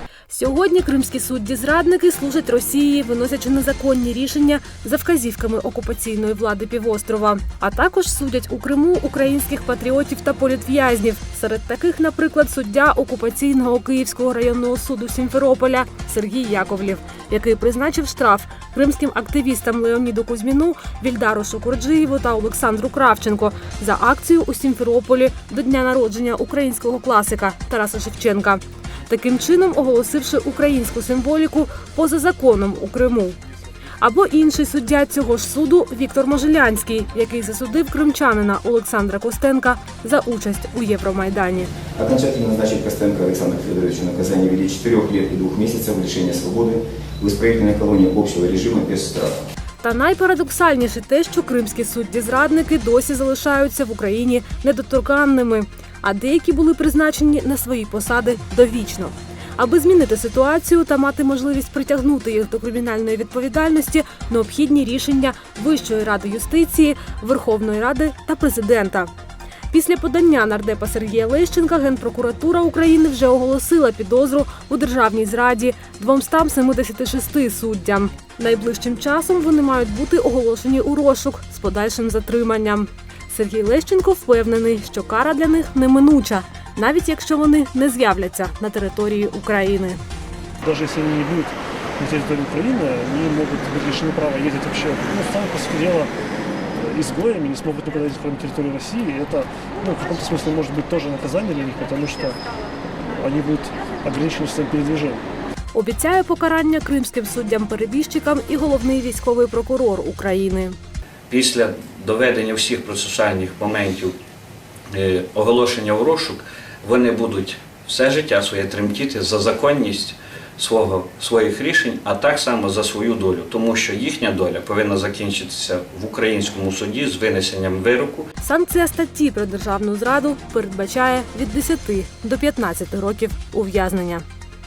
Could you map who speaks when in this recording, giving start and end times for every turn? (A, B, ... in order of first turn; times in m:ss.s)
0:00.3-0:33.4 A
0:34.0-0:41.7 A
0:42.0-0:49.4 B
0:49.8-1:09.1 A
1:09.7-1:30.0 A
1:30.6-1:36.1 C
1:36.8-1:42.4 C
1:43.0-1:45.3 C
1:45.7-1:50.8 A
1:51.3-1:54.2 D
1:54.9-2:08.3 D
2:08.4-2:14.2 A